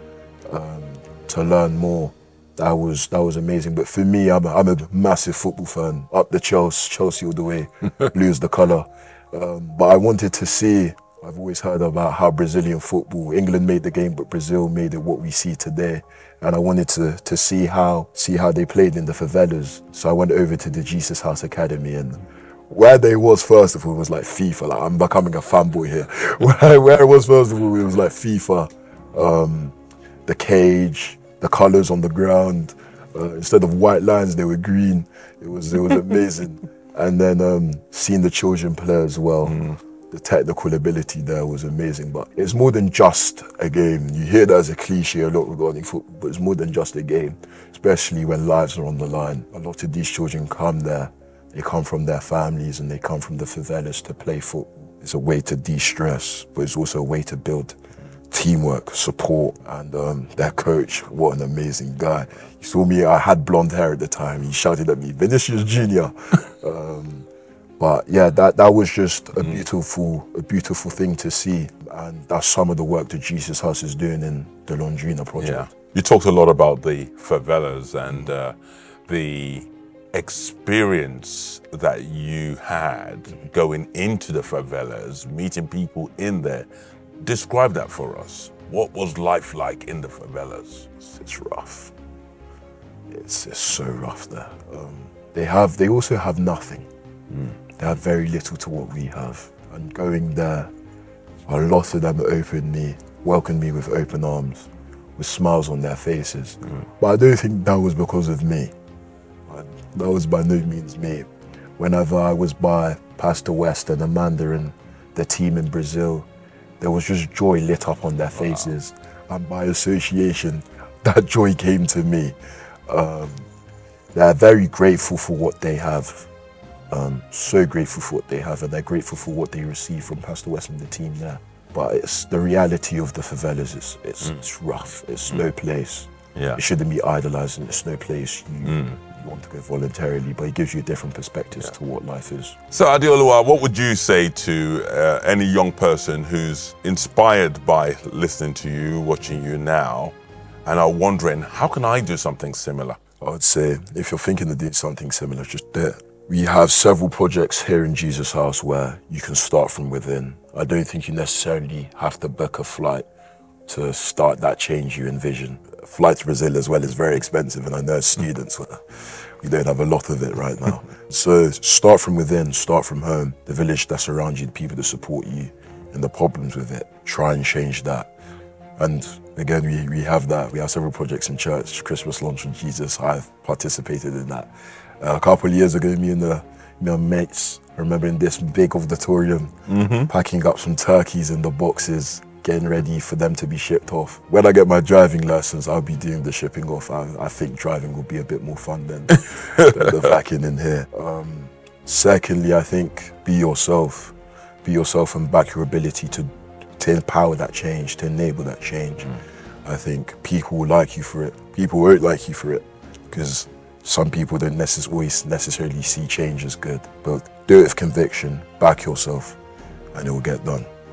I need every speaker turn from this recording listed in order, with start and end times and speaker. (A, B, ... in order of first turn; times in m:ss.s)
0:00.5-0:29.7 A
0:30.2-0:57.8 A
0:39.4-0:39.8 B
0:58.3-1:07.3 A
1:07.8-1:15.7 A
1:15.4-1:18.6 B
1:19.1-1:26.7 B
1:27.2-1:31.0 B
1:31.1-1:31.9 A
1:33.1-1:36.9 A
1:37.8-1:40.7 A
1:41.5-1:48.7 A
1:49.5-1:51.3 A
1:51.8-1:56.3 A
1:56.8-2:02.4 A
2:02.9-2:03.5 A
2:04.1-2:06.3 A
2:06.9-2:22.5 A
2:16.3-2:16.6 B
2:18.6-2:19.1 B
2:22.7-2:33.0 B
2:33.2-2:43.0 A
2:43.7-2:58.1 A
2:58.8-3:04.5 A
3:05.0-3:39.4 A
3:09.7-3:10.1 B
3:19.3-3:20.1 B
3:39.9-3:40.7 A